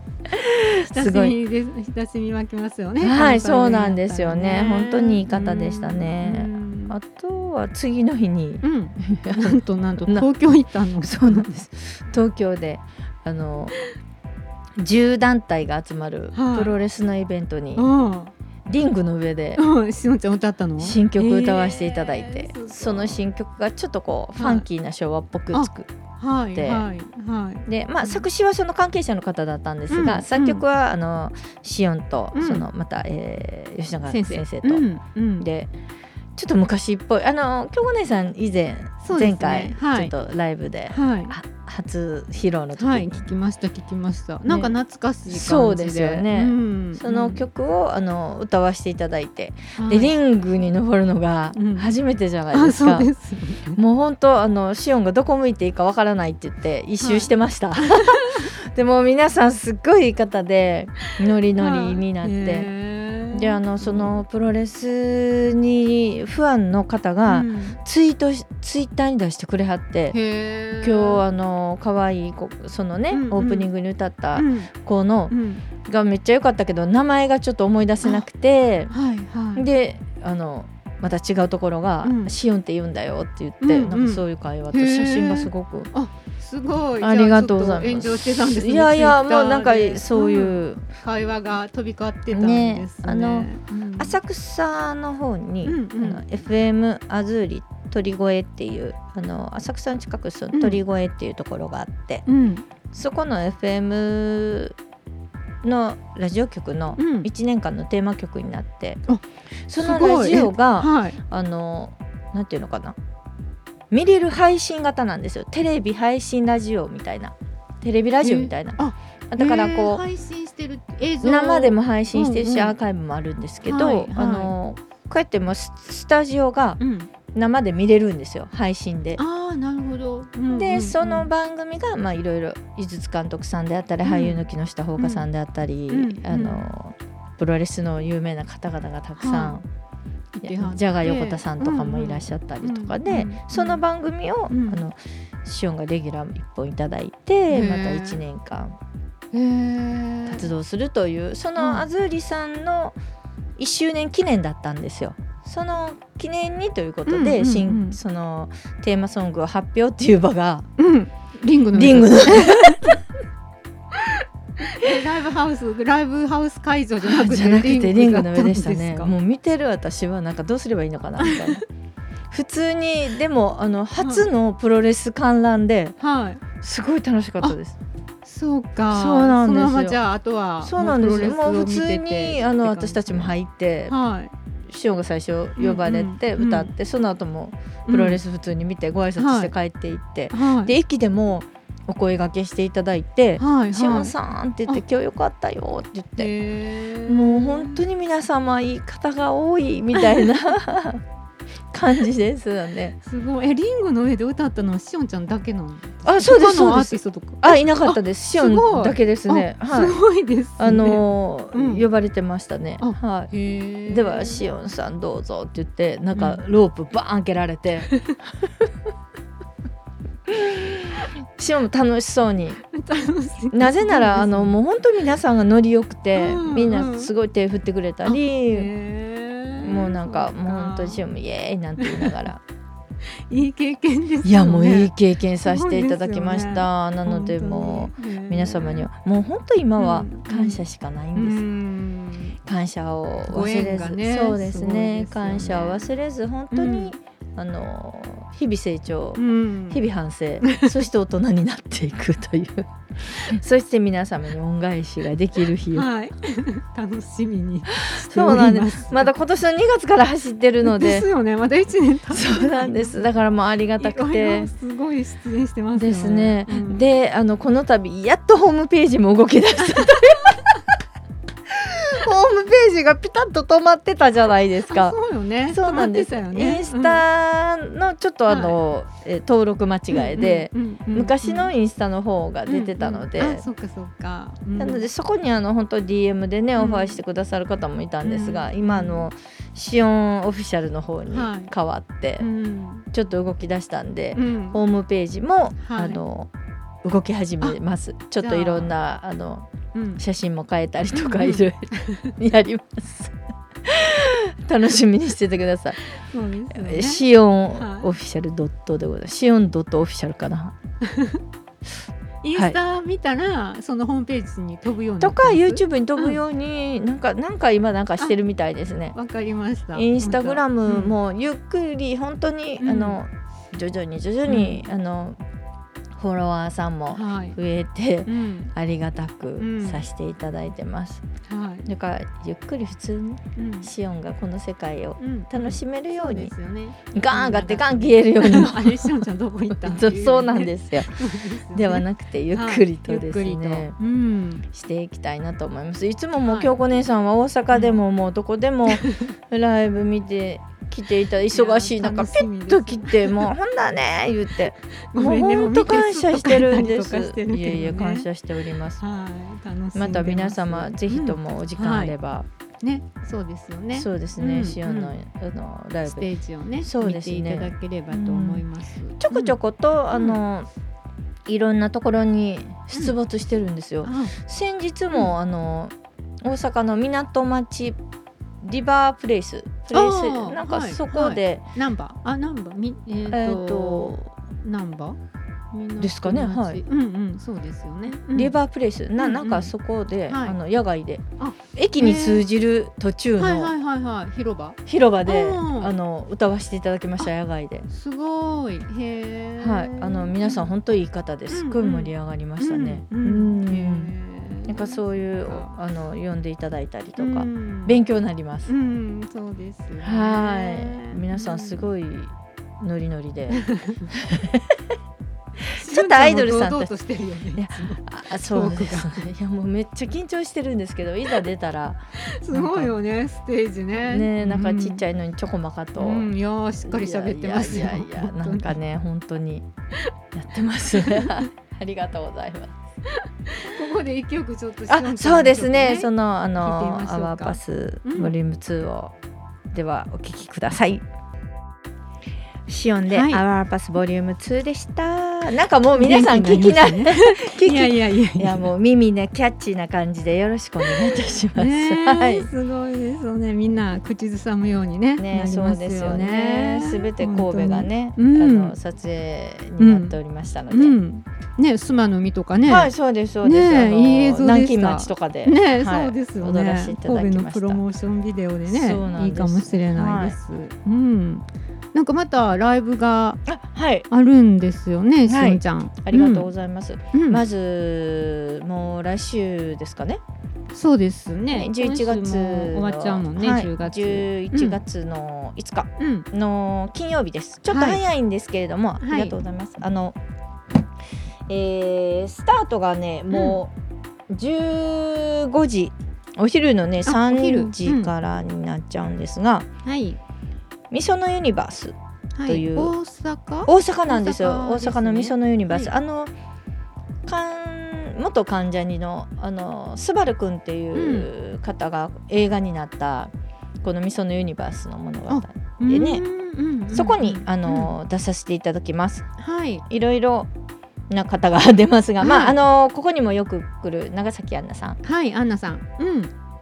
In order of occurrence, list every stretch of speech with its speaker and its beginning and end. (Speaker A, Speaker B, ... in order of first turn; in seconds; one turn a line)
Speaker A: 0.2-1.4
Speaker B: 0.9-7.0
Speaker A: 3.0-10.2
Speaker B: 8.6-11.5
Speaker A: 11.0-13.7
Speaker A: 14.8-17.9
Speaker B: 16.3-16.7
Speaker B: 17.8-18.3
Speaker A: 18.7-19.6
Speaker B: 19.6-23.2
Speaker A: 20.8-25.9
Speaker B: 24.4-24.6
Speaker B: 25.5-28.2
Speaker A: 26.5-26.9
Speaker A: 27.6-34.9
Speaker B: 29.9-30.6
Speaker B: 32.3-32.6
Speaker B: 34.1-35.5
Speaker A: 35.4-35.7
Speaker A: 36.4-43.2
Speaker B: 39.0-40.1
Speaker B: 40.9-41.3
Speaker B: 42.8-47.4
Speaker A: 44.5-44.7
Speaker A: 45.3-53.1
Speaker B: 49.8-50.1
Speaker B: 51.5-51.9
Speaker B: 52.5-53.8
Speaker A: 53.8-62.7
Speaker B: 57.0-58.5
Speaker B: 61.6-64.2
Speaker A: 63.3-70.1
Speaker B: 67.3-67.8
Speaker B: 70.1-71.2
Speaker A: 70.8-78.9
Speaker B: 73.1-73.7
Speaker B: 74.3-74.7
Speaker B: 75.3-75.6
Speaker B: 78.9-79.7
Speaker A: 79.5-85.9
Speaker B: 82.0-82.3
Speaker B: 83.6-94.2
Speaker A: 87.0-90.8
Speaker A: 92.3-102.2
Speaker B: 95.6-96.2
Speaker B: 100.5-100.8
Speaker B: 102.3-102.6
Speaker A: 102.9-104.8
Speaker A: 105.6-109.0
Speaker B: 107.0-107.3
Speaker A: 109.7-113.0
Speaker B: 109.8-111.2
Speaker A: 113.9-118.8
Speaker B: 118.2-122.8
Speaker A: 119.3-120.0
Speaker A: 121.2-126.8
Speaker B: 123.6-124.5
Speaker B: 126.8-127.1
Speaker A: 127.3-129.2
Speaker B: 129.2-131.3
Speaker A: 130.5-139.6
Speaker B: 134.0-134.4
Speaker B: 135.0-135.2
Speaker B: 135.9-136.6
Speaker B: 139.2-139.6
Speaker B: 140.3-143.8
Speaker A: 140.4-148.8
Speaker B: 144.5-144.8
Speaker B: 147.5-148.2
Speaker B: 149.3-150.5
Speaker A: 150.3-152.9
Speaker B: 151.6-151.9
Speaker A: 153.6-160.7
Speaker B: 157.1-158.0
Speaker B: 160.8-163.0
Speaker A: 161.7-163.0
Speaker B: 163.9-169.1
Speaker A: 167.0-171.6
Speaker B: 171.2-171.6
Speaker A: 172.3-175.9
Speaker B: 174.0-174.3
Speaker B: 176.0-176.4
Speaker A: 176.6-177.8
Speaker B: 178.2-183.3
Speaker A: 178.9-180.0
Speaker A: 180.6-183.9
Speaker B: 183.9-184.3
Speaker A: 184.7-196.3
Speaker B: 185.6-186.7
Speaker B: 187.9-188.2
Speaker B: 189.2-189.5
Speaker B: 190.3-190.7
Speaker B: 193.4-194.1
Speaker B: 196.2-197.8
Speaker A: 197.1-201.0
Speaker B: 199.9-200.3
Speaker A: 201.7-202.9
Speaker B: 203.0-211.9
Speaker A: 206.0-210.0
Speaker A: 210.6-213.3
Speaker B: 212.8-214.4
Speaker A: 213.9-218.7
Speaker B: 216.1-216.4
Speaker A: 220.3-222.6
Speaker B: 222.7-224.6
Speaker A: 223.5-228.7
Speaker B: 226.1-227.1
Speaker B: 228.0-231.0
Speaker A: 229.6-232.4
Speaker B: 231.8-232.1
Speaker B: 233.3-234.9
Speaker A: 234.2-241.4
Speaker B: 235.4-238.8
Speaker B: 239.8-242.4
Speaker A: 242.4-255.9
Speaker B: 243.3-245.9
Speaker B: 246.5-246.9
Speaker B: 249.2-249.8
Speaker B: 250.4-250.7
Speaker B: 255.7-259.1
Speaker A: 257.9-261.1
Speaker B: 260.6-263.0
Speaker A: 262.1-264.5
Speaker B: 263.8-266.8
Speaker A: 265.7-270.6
Speaker B: 269.8-270.3
Speaker A: 271.5-275.0
Speaker B: 274.7-277.0
Speaker A: 275.5-283.4
Speaker B: 278.3-278.6
Speaker B: 279.9-281.5
Speaker B: 282.5-284.9
Speaker A: 284.6-292.2
Speaker B: 286.6-287.0
Speaker B: 288.0-289.1
Speaker B: 291.1-291.5
Speaker B: 292.2-292.9
Speaker A: 292.9-296.3
Speaker B: 294.1-294.6
Speaker B: 295.6-296.0
Speaker A: 296.8-299.5
Speaker B: 298.2-298.7
Speaker B: 299.7-300.0
Speaker A: 300.0-305.8
Speaker B: 300.9-302.1
Speaker B: 305.9-307.9
Speaker A: 306.5-310.5
Speaker B: 310.8-311.2
Speaker B: 312.2-316.2
Speaker A: 315.0-318.9
Speaker B: 318.9-320.9
Speaker A: 319.7-325.2
Speaker B: 322.6-323.0
Speaker B: 324.3-324.6
Speaker A: 325.9-331.0
Speaker B: 326.9-327.4
Speaker B: 328.1-328.5
Speaker B: 329.4-329.8
Speaker B: 331.2-331.7
Speaker A: 331.6-336.3
Speaker B: 333.4-333.7
Speaker B: 335.0-344.4
Speaker A: 336.9-340.9
Speaker A: 341.5-343.7
Speaker A: 344.5-358.8
Speaker B: 346.2-346.6
Speaker B: 348.7-349.1
Speaker B: 351.3-353.3
Speaker B: 354.9-358.1
Speaker B: 358.8-361.9
Speaker A: 359.7-362.2
Speaker B: 362.6-364.9
Speaker A: 363.7-366.1
Speaker B: 365.9-369.4
Speaker A: 366.6-368.4
Speaker A: 369.0-370.5
Speaker B: 369.9-370.2
Speaker A: 371.3-375.7
Speaker B: 373.8-374.1
Speaker A: 376.2-377.8
Speaker A: 378.4-381.4
Speaker B: 379.7-385.0
Speaker A: 383.1-384.1
Speaker B: 385.5-388.4
Speaker A: 385.8-386.6
Speaker A: 388.1-391.0
Speaker B: 388.9-389.5
Speaker B: 390.1-390.4
Speaker B: 391.2-392.2
Speaker A: 391.5-393.5
Speaker B: 393.2-395.7
Speaker A: 394.7-397.7
Speaker B: 397.7-400.5
Speaker A: 399.4-403.9
Speaker B: 401.3-405.5
Speaker A: 404.5-408.5
Speaker B: 407.0-407.8
Speaker B: 408.4-411.7
Speaker A: 409.8-414.6
Speaker B: 413.3-413.9
Speaker B: 415.5-419.1
Speaker A: 415.6-416.7
Speaker A: 417.3-421.8
Speaker B: 422.0-424.8
Speaker A: 422.3-422.7
Speaker A: 423.8-426.1
Speaker B: 425.8-428.6
Speaker A: 426.6-429.4
Speaker A: 430.1-432.5
Speaker B: 430.7-431.2
Speaker B: 432.9-438.1
Speaker A: 434.7-438.9
Speaker A: 439.5-440.8
Speaker A: 442.5-452.3
Speaker B: 442.9-443.2
Speaker B: 445.7-448.5
Speaker B: 450.6-458.6
Speaker A: 455.0-460.8
Speaker B: 459.6-459.9
Speaker B: 460.5-462.7
Speaker A: 462.4-467.6
Speaker B: 463.2-473.2
Speaker A: 468.5-470.2
Speaker A: 473.3-473.9
Speaker B: 473.9-476.3
Speaker A: 475.1-480.0
Speaker B: 476.9-477.2
Speaker B: 480.5-484.6
Speaker A: 481.3-489.9
Speaker B: 485.8-486.1
Speaker B: 487.5-487.8
Speaker B: 488.8-489.1
Speaker A: 491.3-493.5
Speaker B: 493.1-493.4
Speaker A: 494.1-499.5
Speaker B: 496.9-497.9
Speaker B: 499.6-500.0
Speaker A: 500.7-501.7
Speaker B: 502.1-505.7
Speaker A: 502.3-502.7
Speaker A: 503.4-506.1
Speaker A: 507.1-513.1
Speaker B: 510.7-511.1
Speaker A: 513.6-516.0
Speaker B: 515.1-517.7
Speaker A: 516.7-519.1
Speaker B: 519.2-519.6
Speaker A: 519.6-520.3
Speaker A: 520.9-524.8
Speaker B: 522.0-522.4
Speaker B: 524.8-526.1